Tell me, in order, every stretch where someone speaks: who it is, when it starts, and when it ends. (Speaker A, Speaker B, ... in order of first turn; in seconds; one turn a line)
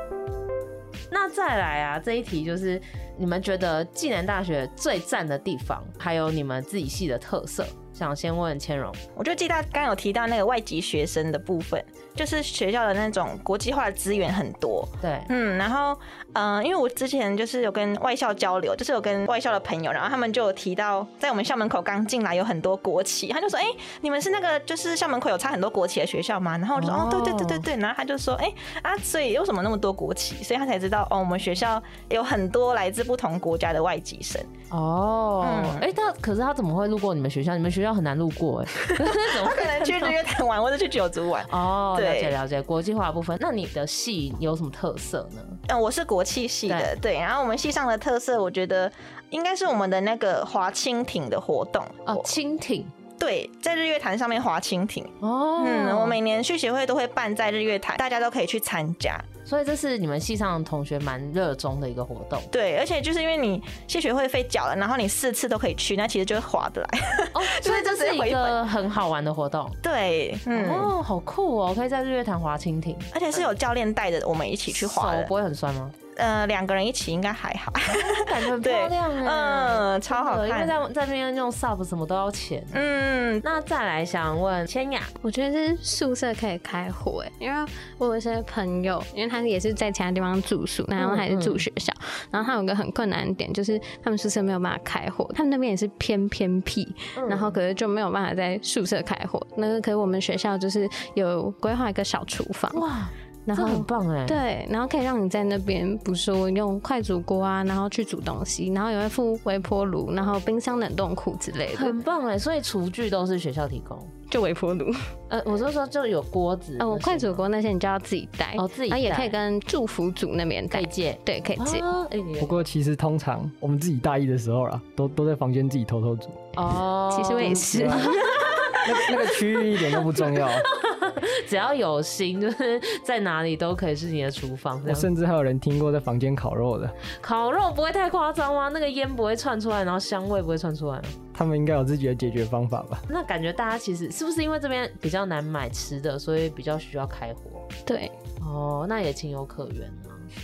Speaker A: 1.1-9.0
Speaker B: 9.2-34.5
Speaker A: 15.0-15.3
Speaker A: 26.8-27.6
Speaker A: 34.7-40.1
Speaker B: 35.4-35.8
Speaker B: 39.4-42.3
Speaker A: 41.5-45.6
Speaker B: 45.7-52.2
Speaker A: 52.0-52.9
Speaker B: 53.2-59.3
Speaker A: 55.2-56.2
Speaker A: 59.5-62.5
Speaker B: 62.5-68.6
Speaker A: 67.3-69.8
Speaker B: 69.8-70.9
Speaker A: 70.5-73.5
Speaker B: 73.1-75.3
Speaker A: 74.7-75.9
Speaker B: 76.2-80.7
Speaker A: 77.9-82.8
Speaker B: 82.7-83.4
Speaker A: 83.4-85.1
Speaker C: 85.2-102.8
Speaker A: 91.0-91.6
Speaker A: 97.1-97.6
Speaker A: 102.7-104.4
Speaker C: 103.5-112.0
Speaker A: 111.7-114.1
Speaker C: 114.3-115.1
Speaker A: 115.3-117.4
Speaker C: 116.8-121.9
Speaker A: 118.5-119.3
Speaker A: 120.7-122.6
Speaker D: 122.4-126.4
Speaker A: 126.5-128.9
Speaker C: 127.1-128.2
Speaker D: 127.4-128.1
Speaker D: 128.8-130.7
Speaker A: 129.8-135.1
Speaker D: 134.8-136.9
Speaker A: 137.2-141.2
Speaker D: 141.3-143.0
Speaker A: 143.1-147.7
Speaker C: 147.8-148.1
Speaker A: 148.4-150.2